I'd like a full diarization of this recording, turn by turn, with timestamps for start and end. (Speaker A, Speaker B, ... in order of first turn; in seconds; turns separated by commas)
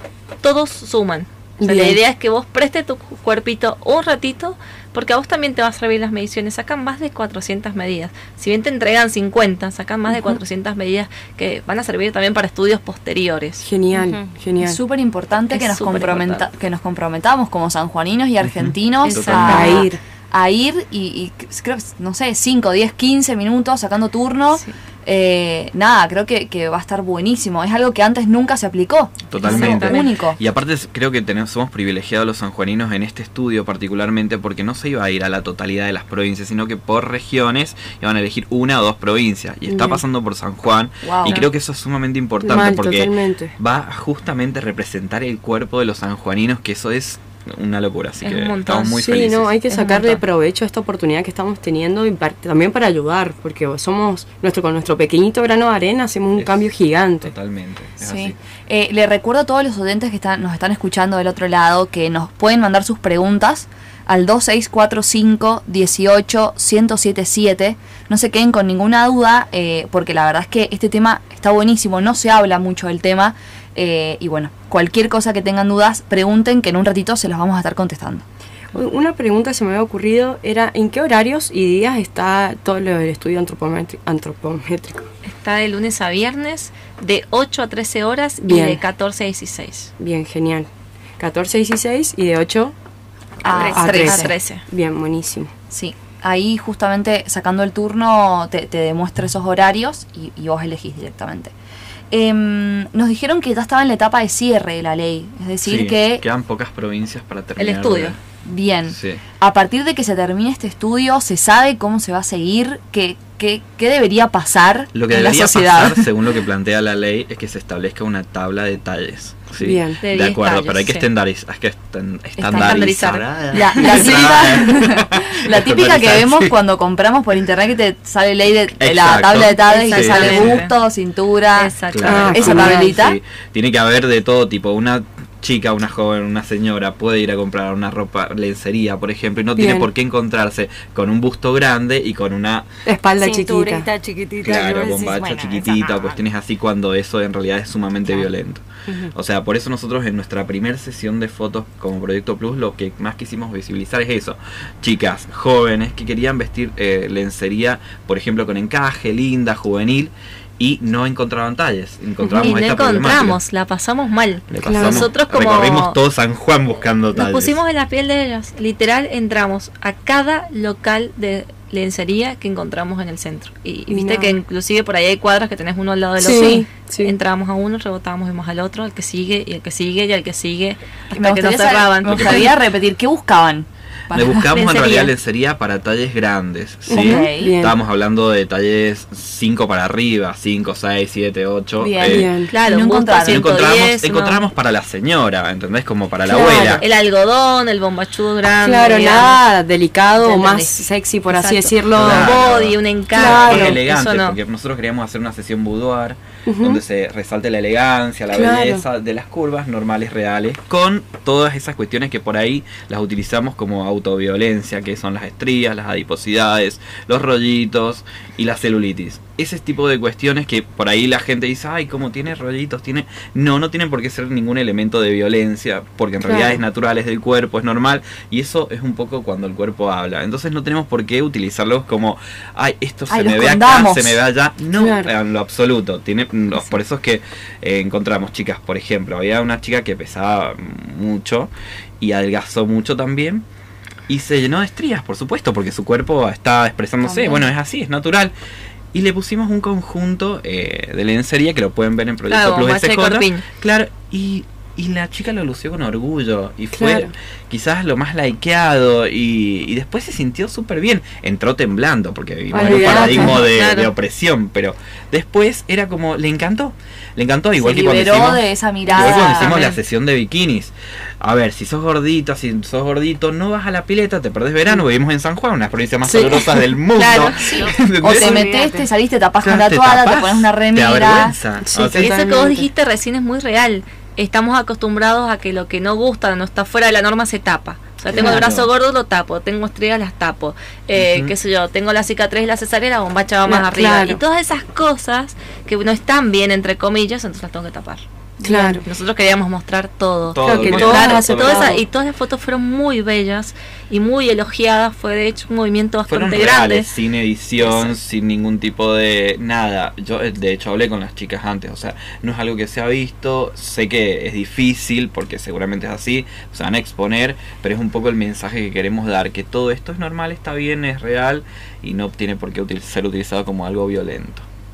Speaker A: 0.4-13.6, Speaker B: 1.6-2.0, Speaker B: 13.6-14.8, Speaker C: 13.9-14.3, Speaker D: 14.6-30.4, Speaker A: 15.5-16.5, Speaker E: 18.4-19.8, Speaker A: 19.0-19.9, Speaker B: 19.3-20.0, Speaker E: 29.3-49.5, Speaker A: 29.4-30.1, Speaker B: 39.7-40.0, Speaker D: 41.0-41.4, Speaker B: 42.4-43.5, Speaker A: 48.2-49.1, Speaker B: 49.0-57.3, Speaker A: 49.7-50.2, Speaker E: 56.4-58.4, Speaker D: 58.0-78.2, Speaker B: 78.7-85.1, Speaker A: 85.2-89.9, Speaker B: 88.5-88.8, Speaker B: 90.0-92.7, Speaker C: 93.4-94.0, Speaker D: 93.4-94.3, Speaker B: 93.5-95.5, Speaker A: 94.0-94.7, Speaker D: 95.7-101.5, Speaker D: 102.1-106.2, Speaker E: 105.6-108.2, Speaker A: 107.6-108.2, Speaker D: 108.4-116.1, Speaker E: 108.9-109.2, Speaker E: 114.9-126.6, Speaker B: 119.6-120.0, Speaker A: 120.0-121.1, Speaker A: 122.4-124.2, Speaker D: 122.5-122.9, Speaker D: 123.5-131.8, Speaker E: 128.8-130.7, Speaker A: 129.7-130.7, Speaker A: 131.5-132.9, Speaker E: 131.9-142.7, Speaker B: 132.0-132.9, Speaker D: 132.3-133.2, Speaker B: 139.6-139.9, Speaker B: 142.9-143.9, Speaker C: 143.2-146.2, Speaker E: 144.4-163.4, Speaker C: 148.9-149.1, Speaker A: 162.2-166.0, Speaker E: 164.5-167.6, Speaker B: 164.7-165.1, Speaker A: 167.1-182.5, Speaker B: 173.9-174.4, Speaker B: 176.2-177.2, Speaker D: 176.3-176.6, Speaker D: 181.1-184.6, Speaker E: 182.1-182.5, Speaker E: 184.1-192.4, Speaker A: 184.5-185.1, Speaker B: 186.9-187.8, Speaker D: 186.9-187.6, Speaker D: 191.8-193.5, Speaker B: 192.1-192.5, Speaker A: 192.5-194.4, Speaker E: 193.2-196.8, Speaker D: 196.3-196.8, Speaker A: 196.8-199.4, Speaker B: 198.6-202.4, Speaker D: 200.2-201.7, Speaker E: 201.9-243.4, Speaker A: 201.9-204.4, Speaker B: 203.2-203.8, Speaker B: 206.5-206.8, Speaker B: 208.3-208.8, Speaker B: 226.2-226.6, Speaker D: 233.1-234.2, Speaker B: 234.8-235.1, Speaker E: 244.1-248.3, Speaker E: 248.9-278.4, Speaker A: 252.3-253.4, Speaker B: 256.8-257.1, Speaker B: 262.5-263.4, Speaker D: 262.6-263.2, Speaker A: 262.7-263.9, Speaker D: 267.6-269.7, Speaker A: 268.9-269.8, Speaker B: 276.1-276.7, Speaker A: 276.9-277.6, Speaker D: 277.1-281.4, Speaker C: 277.6-278.9, Speaker E: 279.4-282.2, Speaker B: 281.6-282.7, Speaker A: 281.8-306.9, Speaker E: 288.1-288.7, Speaker E: 290.9-291.4, Speaker B: 293.5-294.2, Speaker B: 298.4-298.9, Speaker E: 300.3-301.8, Speaker B: 300.4-301.8, Speaker E: 306.1-324.5, Speaker A: 307.6-307.9